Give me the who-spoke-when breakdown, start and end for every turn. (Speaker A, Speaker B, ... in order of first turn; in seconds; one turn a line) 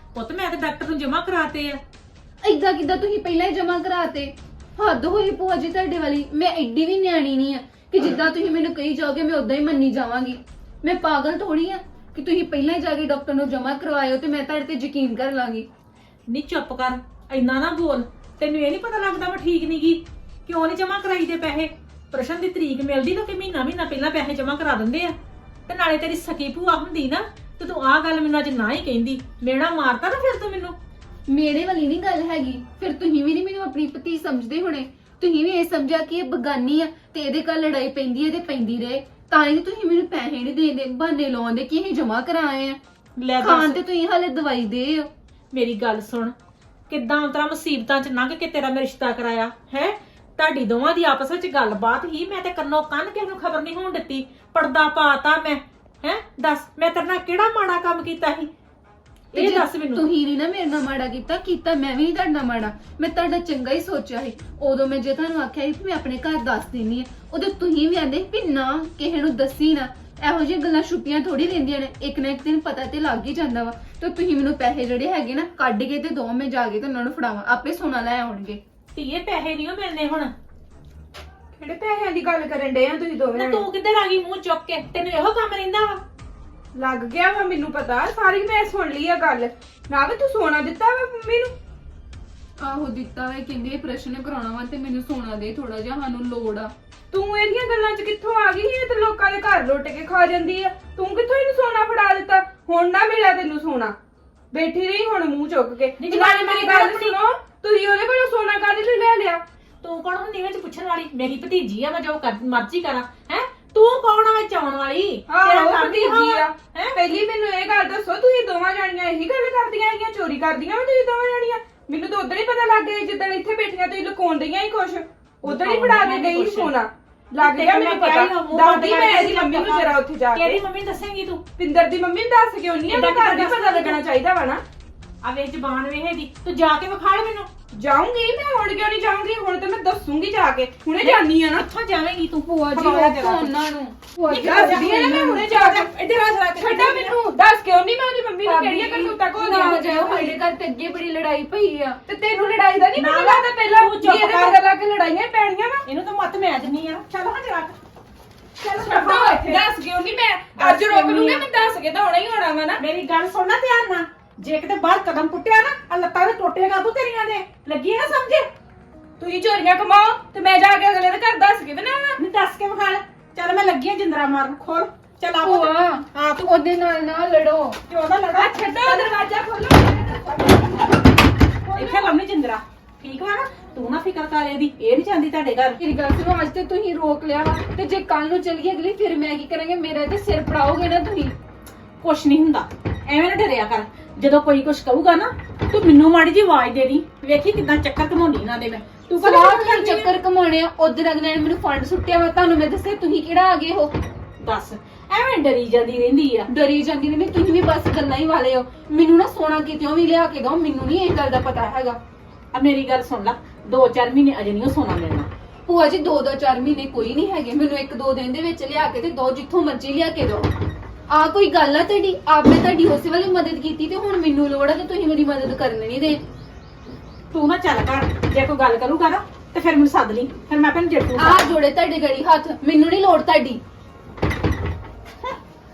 Speaker A: 0.1-1.8
Speaker B: 2.4-15.7
Speaker A: 16.3-25.1
Speaker A: 25.7-30.8
Speaker B: 31.3-42.8
Speaker A: 43.2-43.8
Speaker B: 43.4-45.1
Speaker A: 45.5-46.4
Speaker A: 46.9-58.5
Speaker B: 59.3-78.6
Speaker A: 59.3-60.0
Speaker A: 78.9-80.3
Speaker C: 81.6-83.7
Speaker A: 83.3-86.0
Speaker C: 86.8-91.5
Speaker B: 92.6-96.7
Speaker C: 97.1-103.9
Speaker C: 104.5-109.4
Speaker A: 106.0-107.1
Speaker A: 109.8-117.0
Speaker C: 115.3-130.6
Speaker A: 125.5-126.7
Speaker A: 127.4-131.4
Speaker C: 131.6-134.6
Speaker A: 132.9-134.0
Speaker A: 135.2-137.5
Speaker C: 137.7-141.7
Speaker A: 141.0-143.5
Speaker B: 142.7-145.3
Speaker C: 144.3-145.9
Speaker A: 144.3-147.1
Speaker C: 146.5-150.4
Speaker B: 148.4-152.0
Speaker C: 152.1-155.8
Speaker A: 153.0-154.6
Speaker A: 155.8-157.8
Speaker A: 158.6-159.7
Speaker C: 158.7-162.8
Speaker A: 160.6-161.5
Speaker A: 162.8-168.5
Speaker C: 169.2-172.2
Speaker A: 172.2-176.5
Speaker B: 175.4-177.8
Speaker A: 177.9-179.1
Speaker C: 178.4-181.0
Speaker C: 181.6-182.1
Speaker A: 181.8-185.8
Speaker B: 185.8-191.3
Speaker A: 192.0-200.1
Speaker B: 199.2-203.9
Speaker A: 204.4-206.5
Speaker B: 206.5-212.0
Speaker A: 212.5-215.3
Speaker B: 215.7-220.5
Speaker B: 221.1-226.2
Speaker A: 227.3-231.5
Speaker B: 231.2-233.6